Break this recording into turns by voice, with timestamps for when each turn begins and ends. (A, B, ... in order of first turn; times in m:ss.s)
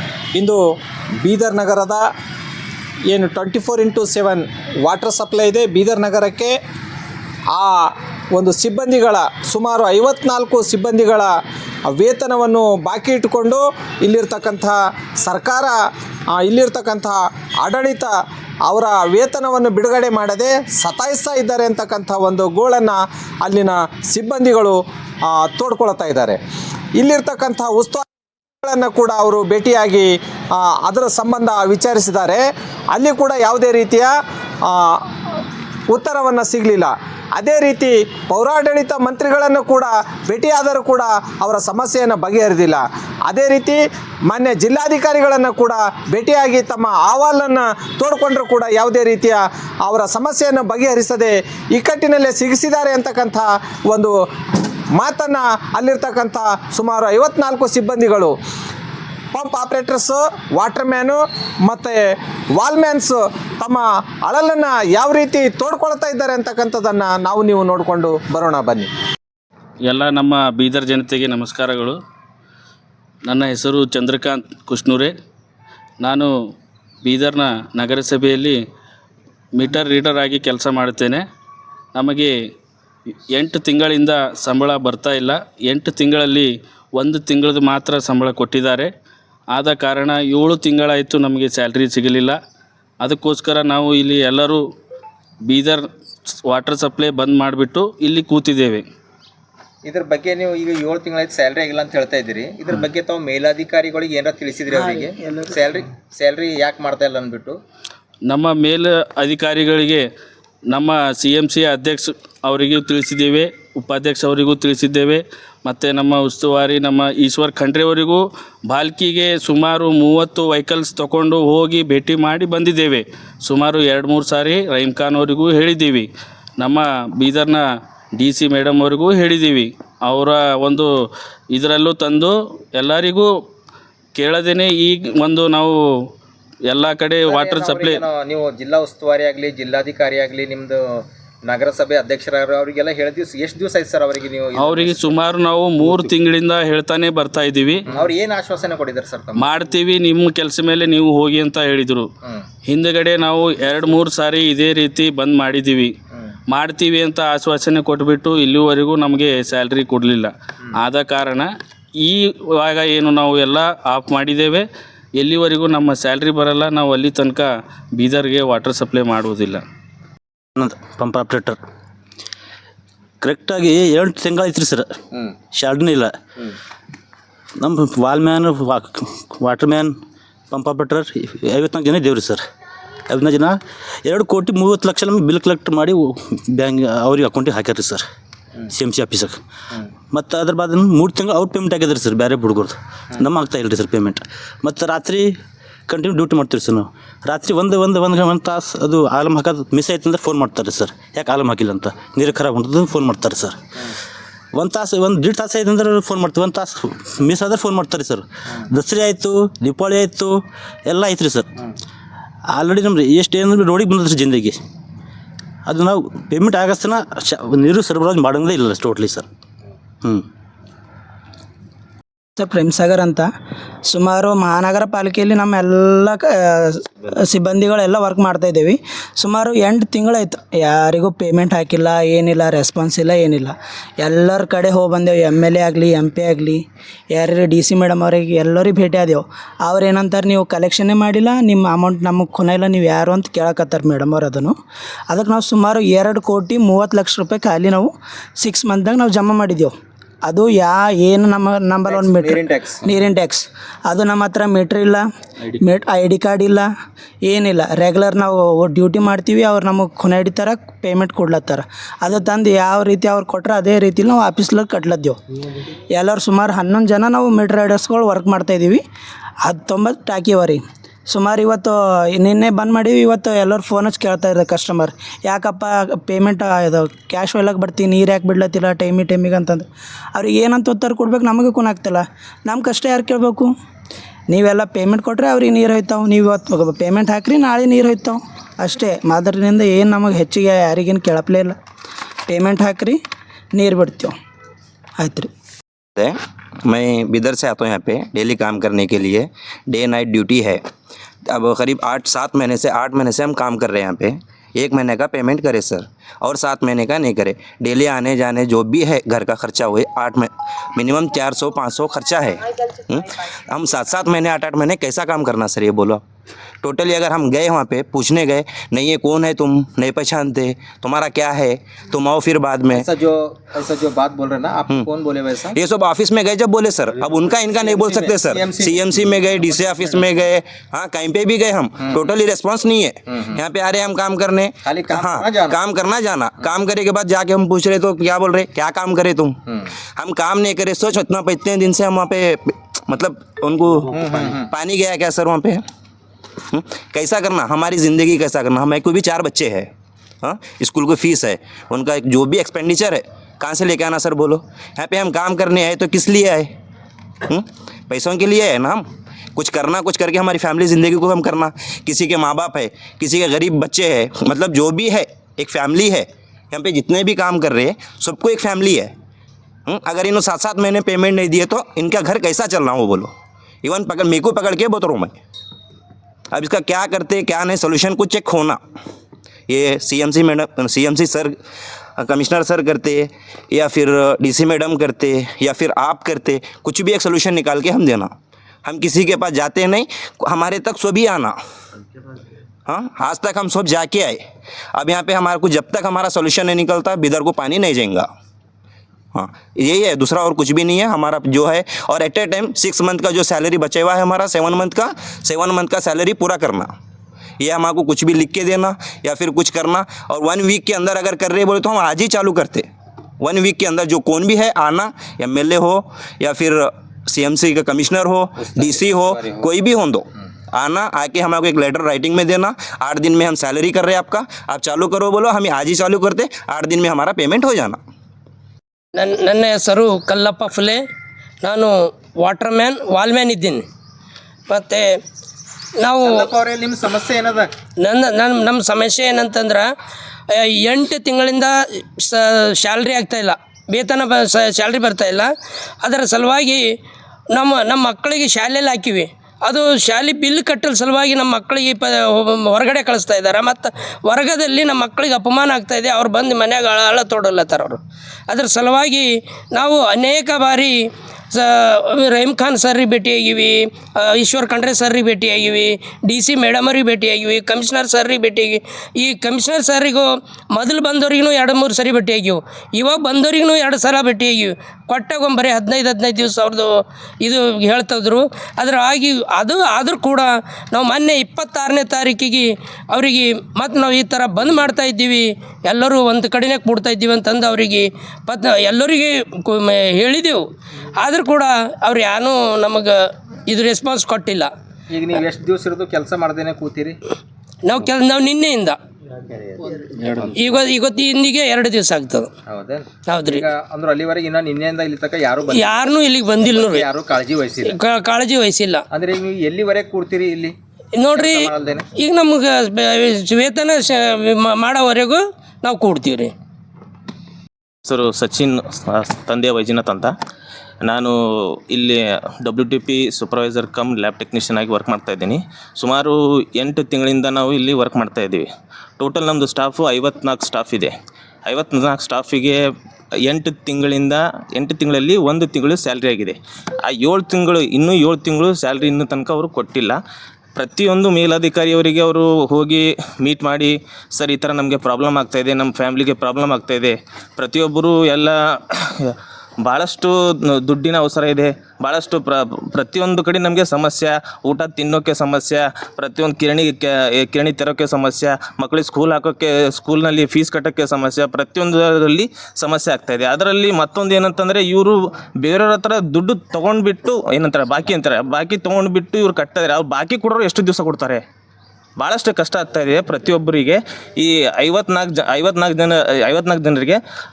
0:01.2-0:02.0 A
0:03.1-0:06.5 A
0:08.3-0:11.3 A
0:11.9-0:15.8 A
0:16.3-0:18.1 A
0:18.7-0:24.8 A
0:25.3-0:26.4 A
0:27.0-0:28.0 A
0:28.6-0:32.4 A
0:32.9-0:34.1 A
0:35.9-0:54.1 A
0:55.0-0:58.3 A
0:59.3-1:02.0 A
1:02.6-1:08.9 A
1:09.9-1:12.0 B
1:13.2-1:15.1 B
1:16.0-1:16.3 B
1:17.0-1:18.6 B
1:19.6-1:21.2 B
1:21.9-1:22.3 B
1:23.3-1:28.9 B
1:29.5-1:32.4 B
1:33.0-1:34.6 B
1:35.4-1:35.8 B
1:36.4-1:38.8 B
1:39.8-1:47.6 C
1:48.3-1:50.0 B
1:50.7-2:07.6 B
2:08.2-2:10.9 B
2:11.5-2:13.4 B
2:14.1-2:16.1 B
2:16.7-2:18.1 B
2:17.2-2:25.2 C
2:24.5-2:27.8 B
2:27.9-2:29.7 C
2:29.3-2:32.1 B
2:32.6-2:35.9 B
2:36.5-2:44.6 B
2:45.2-2:49.6 B
2:50.6-2:51.6 D
2:53.2-2:54.9 D
2:55.6-2:56.1 D
2:57.6-2:59.9 D
3:00.5-3:02.4 D
3:03.1-3:08.0 D
3:08.7-3:09.4 D
3:10.1-3:15.3 D
3:15.9-3:23.6 D
3:24.5-3:31.5 D
3:32.5-3:34.6 D
3:35.7-3:39.3 D
3:42.4-3:43.3 E
3:43.9-3:56.6 E
3:57.1-4:04.5 E
4:05.1-4:09.7 E
4:10.3-4:15.0 E
4:11.8-4:12.9 C
4:15.6-4:16.7 E
4:17.2-4:25.2 E
4:26.0-4:28.8 E
4:29.4-4:43.5 E
4:44.3-4:51.6 E
4:52.3-4:53.0 E
4:53.5-4:54.1 E
4:55.0-4:55.3 E
4:56.0-5:00.6 F
5:01.3-5:16.0 F
5:16.6-5:22.9 F
5:22.7-5:25.6 C
5:25.5-5:39.4 F
5:27.2-5:30.0 C
5:34.6-5:35.5 C
5:40.0-5:45.6 F
5:43.9-5:44.4 C
5:46.5-5:49.7 F
5:50.2-5:56.5 F
5:57.2-6:08.9 F
6:09.7-6:13.1 F
6:13.6-6:15.2 F
6:16.3-6:18.6 F
6:19.5-6:21.3 F
6:22.0-6:28.1 F
6:28.6-6:31.4 F
6:32.6-6:34.2 F
6:34.7-6:38.1 F
6:39.1-6:46.7 F
6:47.4-6:52.7 F
6:53.2-7:07.8 F
6:58.4-6:59.4 C
7:08.9-7:10.8 G
7:11.4-7:13.6 G
7:14.5-7:14.8 G
7:15.8-7:16.2 G
7:16.0-7:17.5 C
7:17.8-7:19.7 G
7:20.3-7:25.3 G
7:25.8-7:26.6 G
7:27.3-7:56.7 G
7:57.2-8:10.4 G
8:11.0-8:14.5 G
8:14.9-8:17.0 C
8:17.6-8:18.8 G
8:19.3-8:20.3 C
8:20.3-8:22.3 G
8:22.5-8:25.9 C
8:23.1-8:23.4 G
8:25.5-8:26.8 G
8:26.4-8:27.8 C
8:27.7-8:28.8 G
8:28.9-8:30.5 C
8:31.0-8:36.3 G
8:31.1-8:31.9 C
8:37.8-8:40.1 H
8:40.8-8:41.1 H
8:41.7-8:48.5 H
8:49.0-8:50.9 H
8:51.5-8:52.6 H
8:53.3-9:00.0 H
9:00.6-9:31.2 H
9:32.0-9:37.0 H